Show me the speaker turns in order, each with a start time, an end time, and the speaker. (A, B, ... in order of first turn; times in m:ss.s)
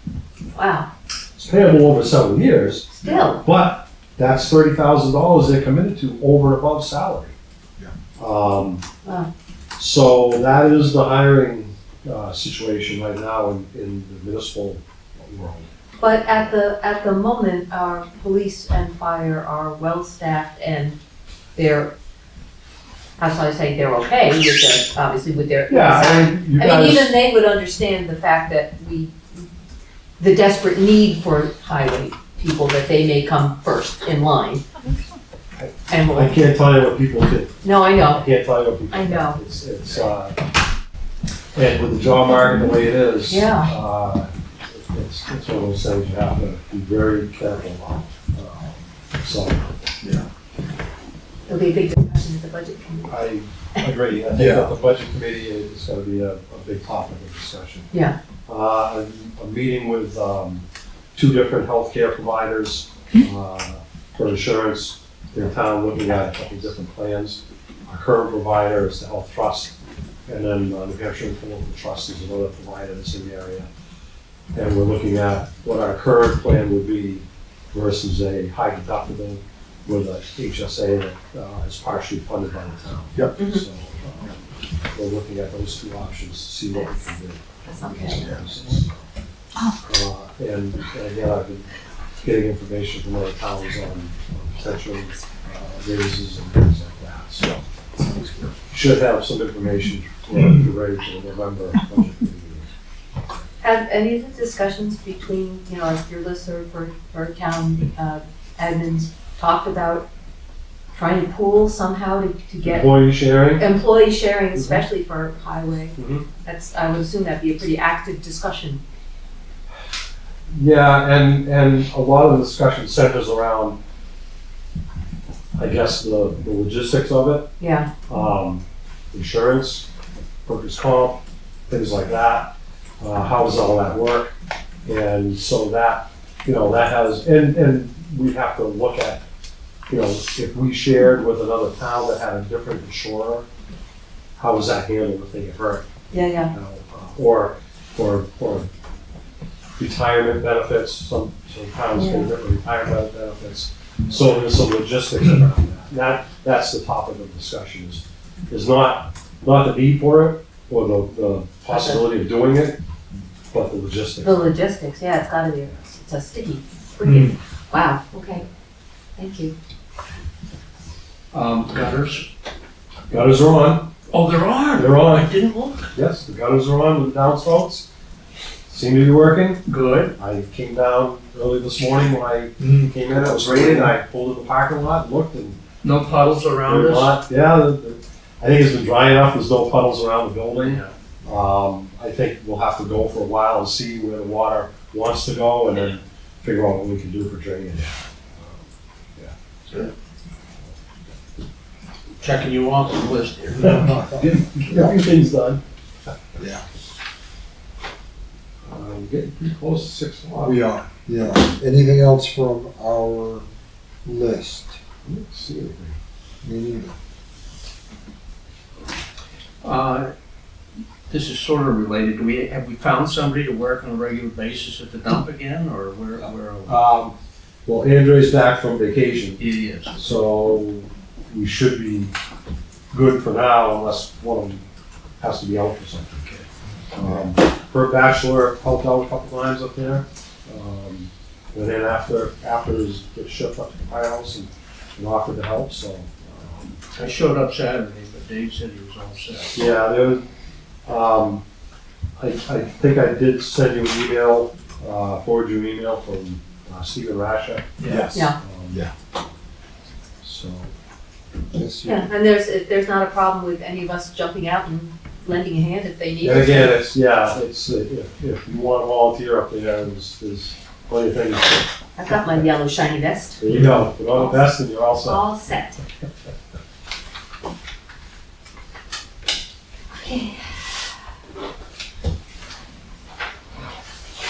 0:00.5-0:00.9 A
0:01.4-0:07.4 B
0:02.9-0:03.4 A
0:08.2-0:08.8 B
0:09.8-0:15.7 B
0:16.0-0:21.0 A
0:21.6-0:21.9 A
0:23.2-0:29.4 A
0:25.7-0:27.2 B
0:30.2-0:34.7 A
0:35.6-0:40.4 B
0:35.9-0:36.4 A
0:37.6-0:38.2 A
0:38.9-0:39.4 A
0:41.5-0:49.6 B
0:43.3-0:43.7 A
0:51.5-0:53.2 A
0:53.1-0:57.9 B
0:54.3-0:54.7 C
0:58.5-1:09.7 B
1:10.3-1:13.7 B
1:14.5-1:28.9 B
1:23.4-1:23.6 A
1:26.7-1:27.1 A
1:27.6-1:28.2 A
1:29.8-1:37.6 B
1:38.0-1:38.5 C
1:38.7-1:42.7 B
1:43.6-1:50.0 A
1:50.9-1:52.9 A
1:52.6-1:53.6 B
1:53.5-1:58.8 A
1:54.5-1:54.8 B
1:56.0-1:56.2 B
2:00.5-2:03.8 B
2:05.6-2:07.5 B
2:07.6-2:07.9 A
2:08.1-2:09.9 B
2:10.4-2:14.3 B
2:14.8-2:19.2 B
2:19.9-2:23.5 B
2:24.4-2:25.9 B
2:26.1-2:26.5 A
2:26.5-2:28.7 B
2:29.8-2:42.8 B
2:31.9-2:32.3 A
2:41.7-2:42.0 A
2:43.5-2:44.6 B
2:44.2-2:48.4 A
2:47.0-2:47.3 D
2:49.2-2:49.5 A
2:51.3-2:52.3 D
2:53.1-2:53.9 B
2:54.1-2:55.9 D
2:54.8-2:55.3 B
2:55.9-2:57.8 B
2:58.7-3:05.6 B
2:59.7-3:00.1 D
3:02.6-3:03.8 D
3:05.8-3:07.2 D
3:06.2-3:18.6 B
3:10.6-3:10.9 D
3:19.2-3:19.9 B
3:22.2-3:24.5 D
3:23.7-3:24.9 C
3:24.6-3:25.6 B
3:26.4-3:26.6 C
3:28.6-3:30.7 B
3:30.4-3:33.5 C
3:34.0-3:34.8 C
3:35.0-3:36.0 B
3:36.4-3:36.9 C
3:39.6-3:40.1 D
3:41.1-3:46.8 D
3:46.6-3:47.1 B
3:47.6-3:49.4 B
3:49.4-3:50.0 D
3:49.9-3:52.1 B
3:52.9-3:54.6 B
3:55.2-4:06.8 B
4:06.9-4:09.6 D
4:09.5-4:10.2 B
4:10.8-4:11.4 B
4:12.2-4:18.8 B
4:17.8-4:18.1 D
4:17.9-4:18.9 C
4:18.1-4:18.4 A
4:20.2-4:20.7 B
4:21.5-4:22.1 C
4:21.8-4:26.8 A
4:26.2-4:31.7 B
4:32.0-4:33.4 A
4:33.4-4:35.2 B
4:34.1-4:35.8 A
4:39.9-4:40.5 A